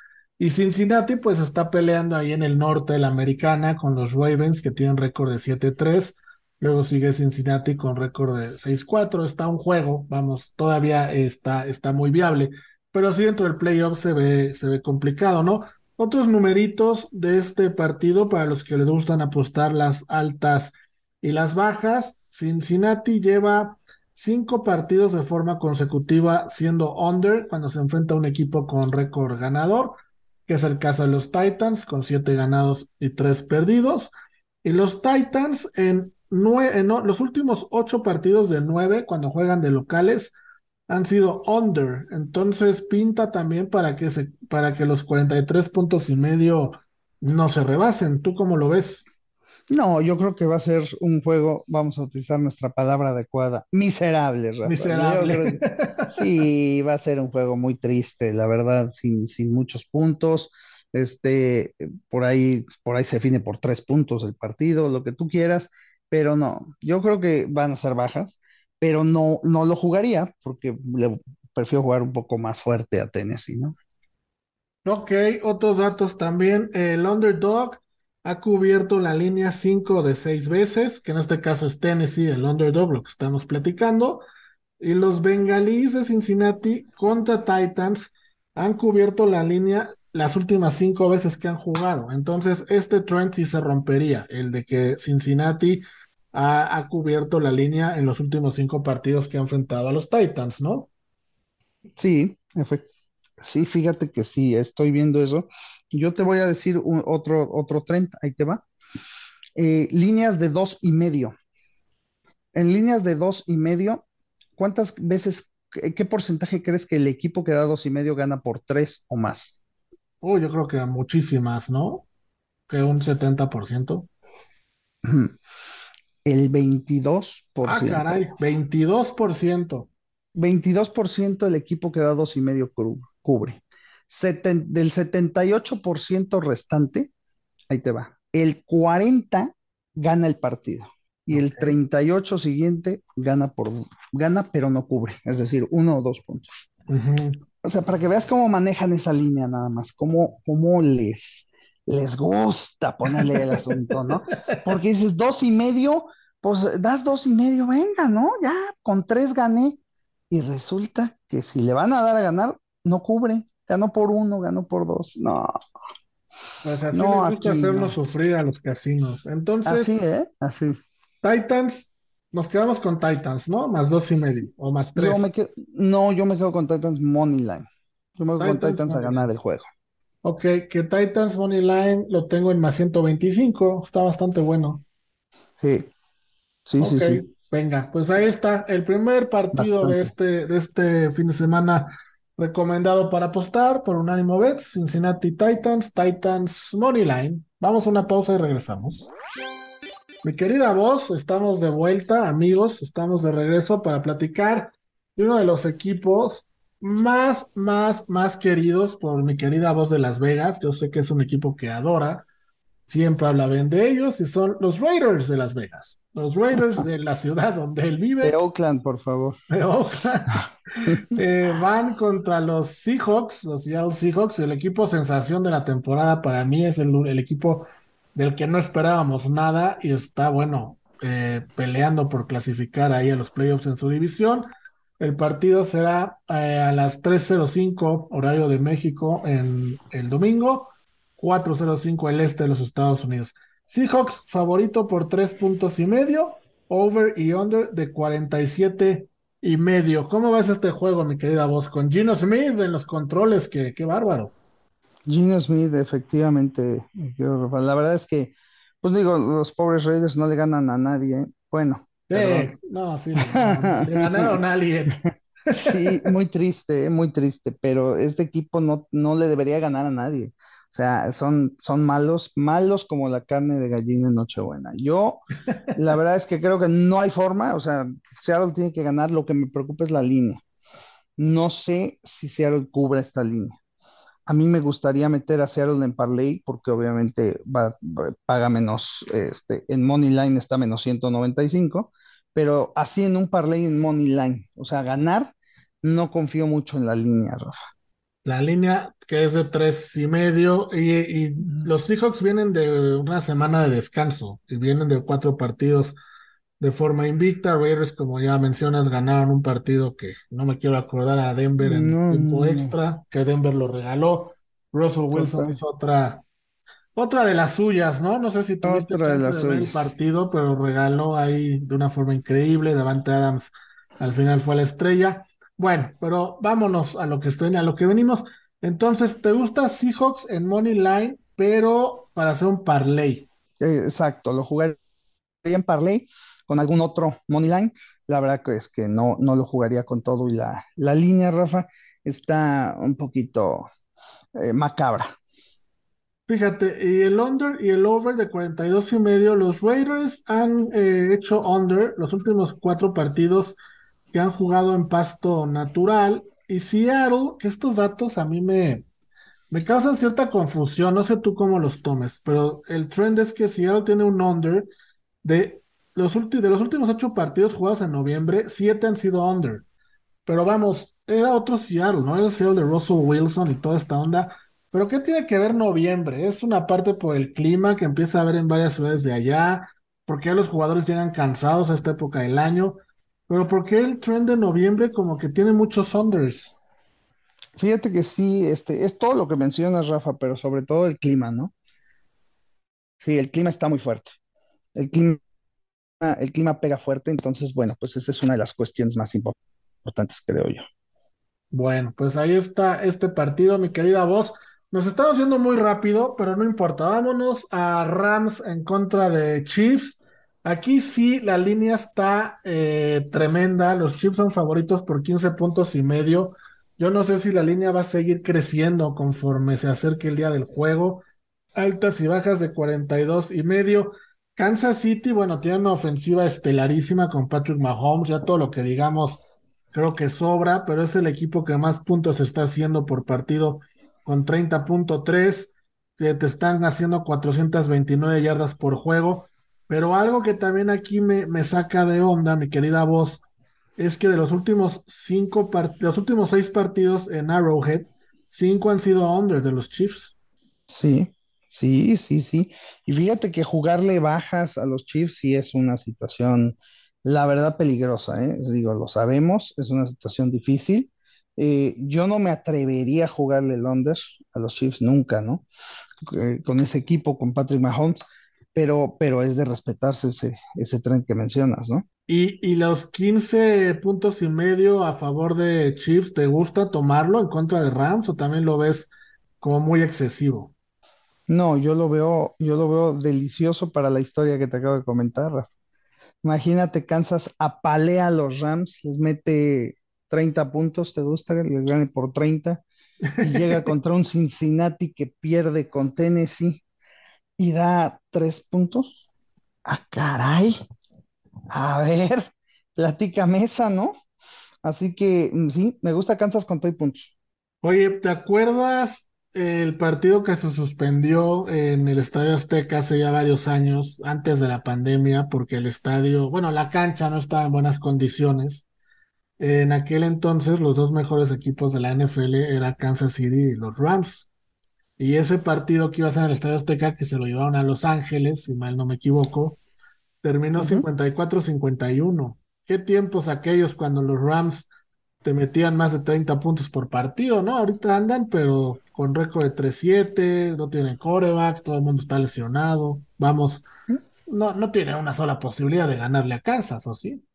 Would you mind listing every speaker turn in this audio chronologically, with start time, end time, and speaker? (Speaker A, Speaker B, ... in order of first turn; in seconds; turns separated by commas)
Speaker A: 0.4-34.1, Speaker A: 34.6-40.3, Speaker A: 40.9-49.0, Speaker B: 49.7-73.7, Speaker A: 54.6-56.3, Speaker A: 74.8-84.2, Speaker A: 84.8-100.9, Speaker B: 102.0-102.8, Speaker B: 103.4-108.6, Speaker B: 109.5-111.3, Speaker B: 112.5-114.0, Speaker B: 114.6-119.6, Speaker A: 120.2-122.0, Speaker A: 122.7-124.1, Speaker B: 125.0-125.3, Speaker B: 126.2-128.2, Speaker A: 127.6-129.9, Speaker B: 130.3-137.1, Speaker B: 137.7-146.5, Speaker A: 141.3-141.7, Speaker A: 146.9-147.4, Speaker B: 147.6-159.8, Speaker A: 153.1-154.0, Speaker B: 160.3-165.5, Speaker A: 166.6-169.9, Speaker B: 166.9-167.9, Speaker B: 169.7-170.7, Speaker A: 171.2-175.3, Speaker B: 174.9-177.7, Speaker B: 178.2-179.7, Speaker A: 178.4-179.3, Speaker A: 180.2-184.8, Speaker B: 185.6-185.9, Speaker B: 186.7-187.2, Speaker A: 186.8-199.1, Speaker B: 189.5-190.1, Speaker A: 200.2-212.2, Speaker A: 212.9-218.4, Speaker B: 218.2-219.4, Speaker A: 219.5-254.3, Speaker B: 220.9-221.2, Speaker B: 255.1-262.5, Speaker A: 262.1-266.1, Speaker B: 263.2-264.4, Speaker B: 265.5-275.2, Speaker B: 275.7-280.4, Speaker B: 281.2-283.6, Speaker B: 284.3-297.6, Speaker A: 298.2-306.0, Speaker A: 306.6-316.2, Speaker B: 311.6-312.8, Speaker B: 315.1-315.6, Speaker A: 316.9-333.3, Speaker B: 318.6-319.9, Speaker B: 333.6-334.8, Speaker B: 335.4-343.6, Speaker B: 344.4-345.1, Speaker A: 346.3-353.6, Speaker A: 354.1-358.9, Speaker A: 359.5-364.7, Speaker A: 365.2-369.6, Speaker A: 370.2-386.5, Speaker B: 387.6-391.5, Speaker B: 393.0-394.1, Speaker B: 394.8-395.2, Speaker B: 396.0-400.6, Speaker A: 401.5-421.0, Speaker A: 421.5-443.2, Speaker A: 443.8-450.1, Speaker B: 450.7-465.4, Speaker B: 466.1-468.0, Speaker B: 468.5-471.8, Speaker A: 472.1-480.5, Speaker B: 481.3-485.5, Speaker B: 486.2-492.6, Speaker A: 493.1-493.7, Speaker B: 493.2-496.6, Speaker B: 497.4-498.9, Speaker B: 499.6-500.6, Speaker B: 501.5-503.9, Speaker B: 504.6-507.1, Speaker A: 507.6-518.6, Speaker A: 519.4-524.3, Speaker A: 525.0-529.6, Speaker A: 530.2-534.7, Speaker B: 530.5-530.9, Speaker A: 535.2-543.6, Speaker A: 544.2-547.2